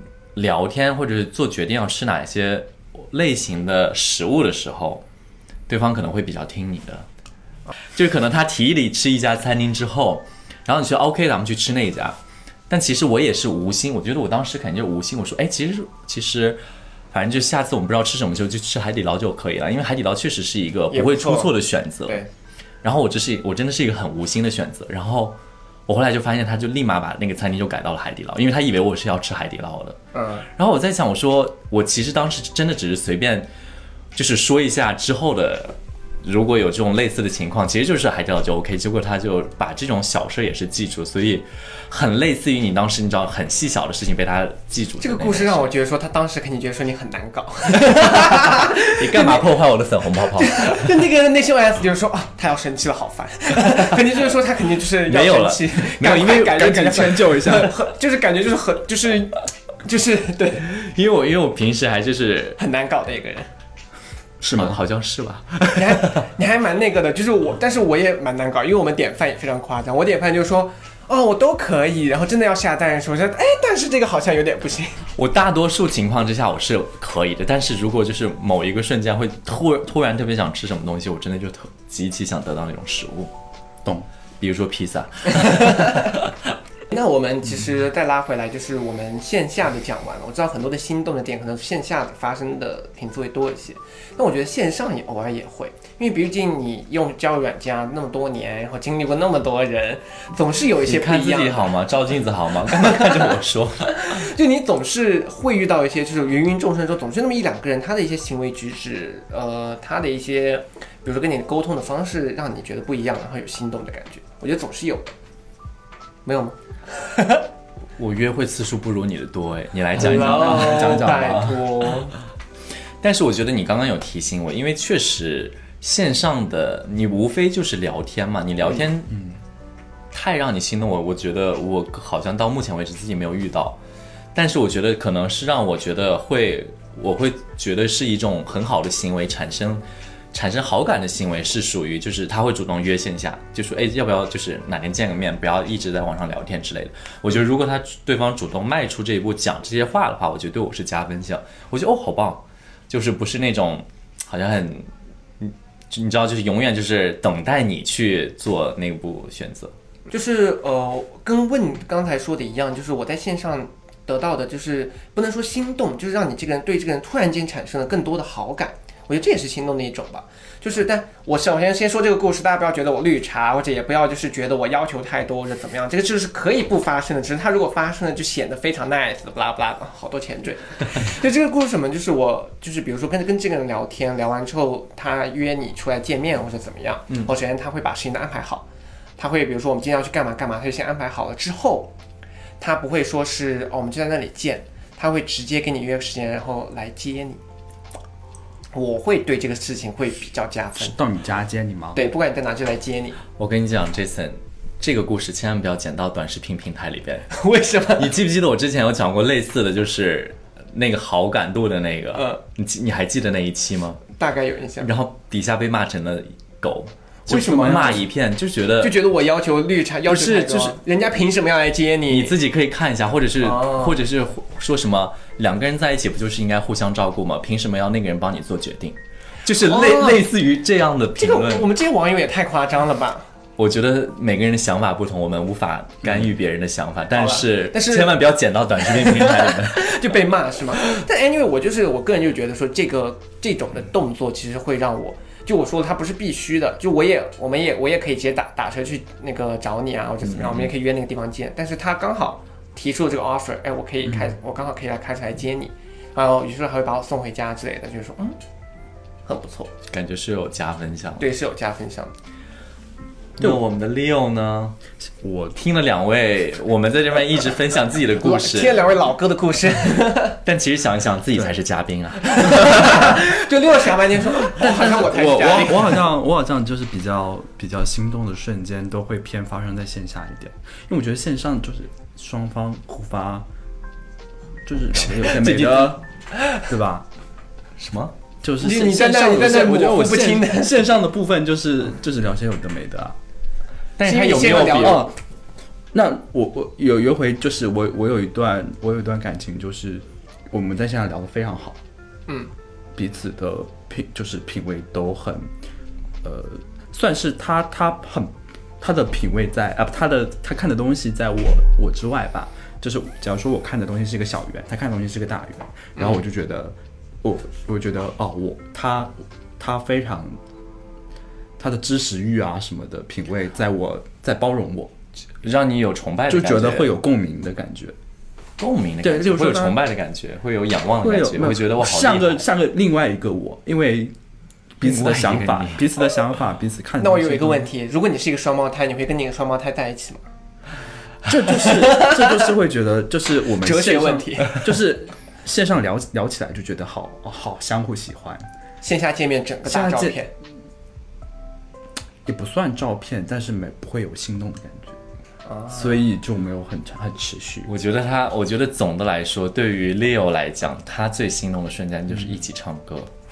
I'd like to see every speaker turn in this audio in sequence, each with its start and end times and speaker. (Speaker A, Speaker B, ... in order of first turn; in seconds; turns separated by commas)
Speaker A: 0.3-5.0, Speaker A: 5.7-7.0, Speaker A: 7.9-12.2, Speaker A: 12.7-16.6, Speaker A: 17.1-22.2, Speaker B: 20.9-22.3, Speaker A: 22.8-30.0, Speaker B: 30.1-30.5, Speaker A: 30.6-33.5, Speaker A: 34.1-45.7, Speaker B: 45.0-49.5, Speaker A: 47.8-50.9, Speaker B: 50.3-60.8, Speaker A: 53.7-54.0, Speaker A: 55.0-56.8, Speaker C: 56.5-57.7, Speaker A: 60.7-62.6, Speaker B: 62.6-63.5, Speaker C: 64.4-64.8, Speaker A: 64.5-66.2, Speaker B: 65.7-75.1, Speaker A: 75.2-83.3, Speaker A: 84.4-86.1, Speaker B: 85.4-86.2, Speaker B: 86.9-101.8, Speaker A: 100.8-104.2, Speaker B: 102.7-103.3, Speaker B: 103.9-115.1, Speaker B: 116.2-117.4, Speaker A: 118.0-121.6, Speaker B: 119.9-122.1, Speaker C: 120.0-121.6, Speaker A: 123.0-129.2, Speaker A: 130.1-133.8, Speaker A: 134.3-154.9, Speaker A: 155.4-159.7, Speaker B: 160.1-188.7, Speaker B: 189.2-191.9, Speaker B: 192.6-197.4, Speaker B: 198.7-201.0, Speaker C: 200.8-202.0, Speaker B: 201.9-203.2, Speaker A: 203.4-207.3, Speaker B: 207.3-208.2, Speaker A: 208.0-214.0, Speaker B: 212.1-212.4, Speaker B: 214.2-214.9, Speaker A: 214.8-219.0, Speaker B: 217.3-218.0, Speaker C: 217.3-217.9, Speaker B: 218.8-222.3, Speaker A: 220.1-220.8, Speaker A: 222.1-231.7, Speaker B: 223.4-224.0, Speaker B: 229.6-230.3, Speaker B: 231.2-233.2, Speaker A: 233.6-239.9, Speaker B: 237.1-238.3, Speaker B: 238.8-258.4, Speaker A: 250.2-250.7, Speaker B: 259.2-259.7, Speaker A: 259.9-261.3, Speaker B: 261.2-262.1, Speaker A: 263.4-264.8, Speaker C: 265.2-265.6, Speaker A: 265.6-268.8, Speaker B: 268.2-270.4, Speaker A: 270.4-273.3, Speaker B: 272.4-276.0, Speaker C: 272.6-273.1, Speaker C: 274.6-283.5, Speaker C: 284.6-286.0, Speaker A: 285.2-286.0, Speaker C: 286.6-287.1, Speaker A: 287.8-288.1, Speaker C: 288.4-293.1, Speaker B: 288.6-290.9, Speaker A: 294.0-295.1, Speaker B: 294.0-295.1, Speaker C: 294.4-295.1, Speaker C: 295.9-301.8, Speaker C: 303.0-305.5, Speaker C: 306.2-320.4, Speaker C: 321.6-324.9, Speaker A: 325.4-326.9, Speaker C: 326.3-327.9, Speaker A: 328.6-332.4, Speaker C: 329.0-329.8, Speaker C: 331.0-334.1, Speaker C: 334.8-337.7, Speaker A: 334.8-335.8, Speaker B: 337.0-340.2, Speaker C: 341.2-348.4, Speaker B: 341.5-342.5, Speaker B: 343.6-344.7, Speaker B: 348.8-350.3, Speaker C: 349.6-350.2, Speaker C: 352.2-355.0, Speaker B: 355.4-356.0, Speaker C: 355.7-357.7, Speaker A: 357.7-363.1